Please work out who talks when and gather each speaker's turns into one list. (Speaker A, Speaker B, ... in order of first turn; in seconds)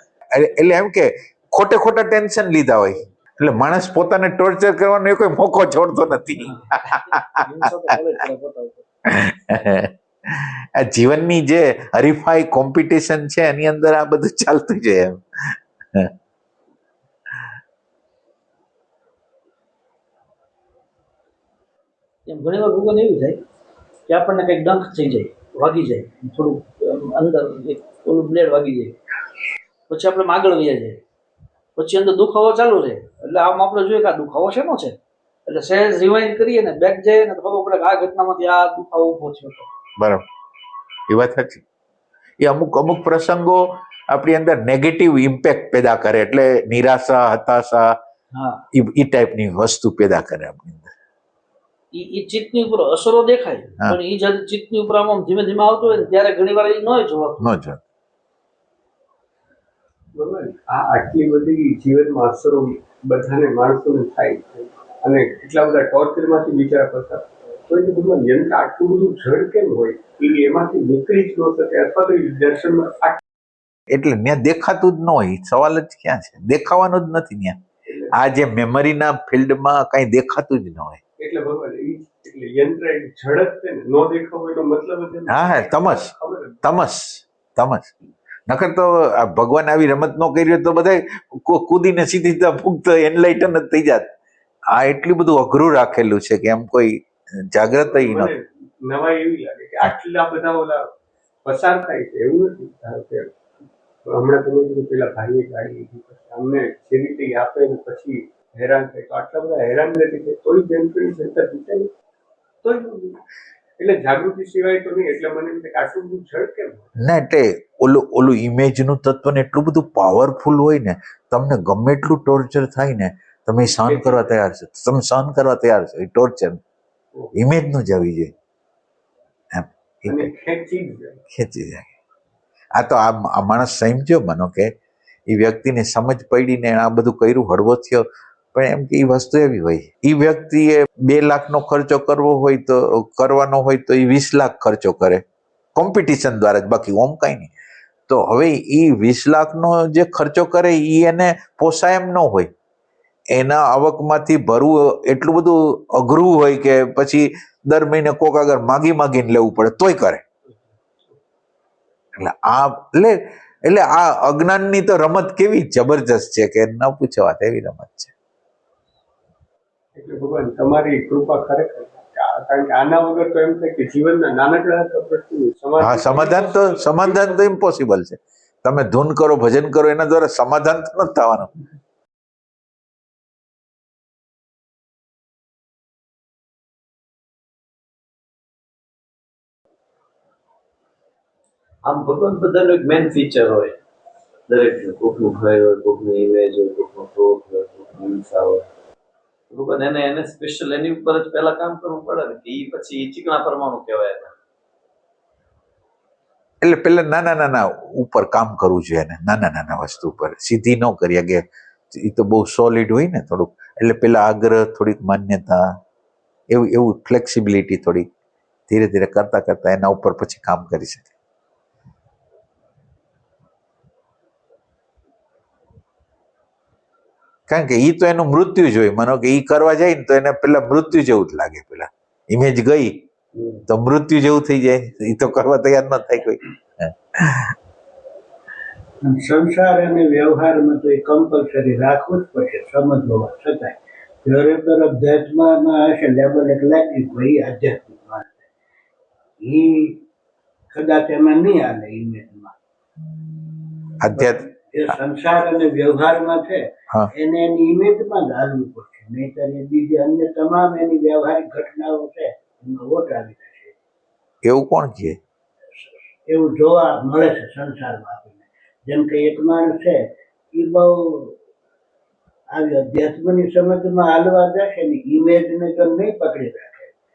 Speaker A: 0.3-8.0, 9.1-16.1, 40.0-40.3, 41.1-41.6, 42.4-48.0, 48.7-50.9, 57.4-57.8, 73.9-77.6, 78.1-81.0, 85.3-86.1, 86.6-87.9, 88.5-94.1, 94.7-98.3, 117.0-126.6, 127.3-128.3, 129.5-130.3, 131.3-131.9, 132.8-134.7, 135.3-145.2, 145.8-147.5, 148.1-152.5, 153.3-160.2, 162.2-168.1, 175.8-181.5, 206.6-215.8, 216.5-218.1, 218.7-221.1, 227.5-233.0, 233.7-237.6, 254.0-255.0, 264.4-265.2
Speaker B: 6.9-8.9, 22.3-23.4, 24.1-29.0, 29.9-31.0, 31.8-35.0, 35.5-39.7, 48.3-48.6, 51.9-57.5
Speaker C: 60.2-73.2, 77.9-78.2, 81.2-86.6, 97.7-100.9, 101.5-103.3, 104.1-111.9, 112.6-113.2, 113.8-116.9, 123.8-124.3, 130.1-131.2, 170.0-177.4
Speaker D: 191.8-193.8, 194.5-198.7, 199.5-204.3
Speaker E: 239.0-248.4, 249.4-250.0, 250.7-252.6, 254.1-263.7, 266.3-271.4, 272.5-276.9